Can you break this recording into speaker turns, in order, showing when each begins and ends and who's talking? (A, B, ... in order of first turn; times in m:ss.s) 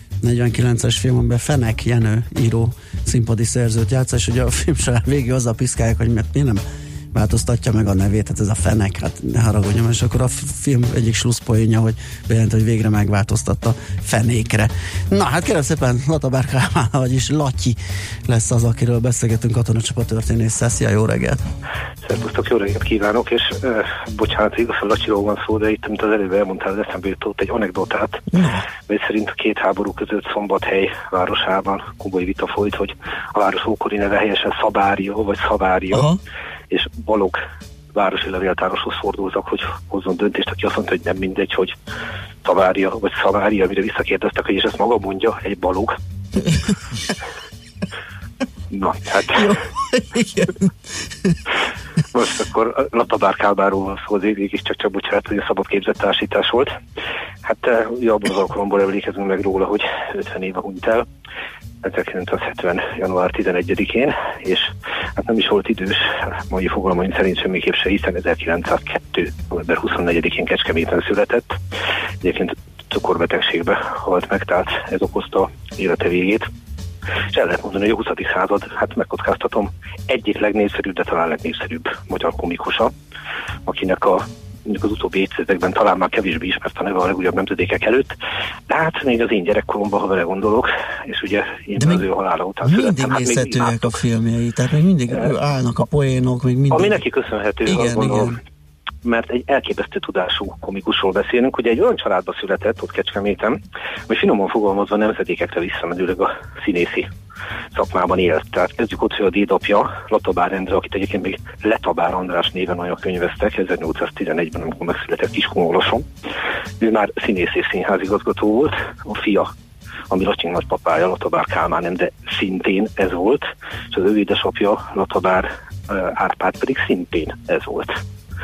0:00.2-0:21.4 A
0:22.0-0:28.2 B
0:28.3-0:28.7 A
0:28.9-0:36.1 B
0:35.9-0:36.2 A
0:36.7-0:37.4 B
0:38.0-0:41.7 B
0:42.4-0:46.0 B
0:48.7-0:49.6 B
0:49.3-0:50.7 A
0:52.1-0:56.7 B
0:57.4-1:01.0 B
1:01.8-1:11.6 B
1:12.2-1:16.5 B
1:17.3-1:22.9 B
1:23.7-1:28.1 B
1:28.7-1:34.0 B
1:31.8-1:32.0 A
1:32.6-1:37.0 A
1:36.7-1:38.4 B
1:37.7-1:38.4 A
1:39.0-1:43.6 B
1:44.1-1:47.1 B
1:47.7-1:56.1 B
1:56.8-1:59.5 B
2:00.1-2:08.0 B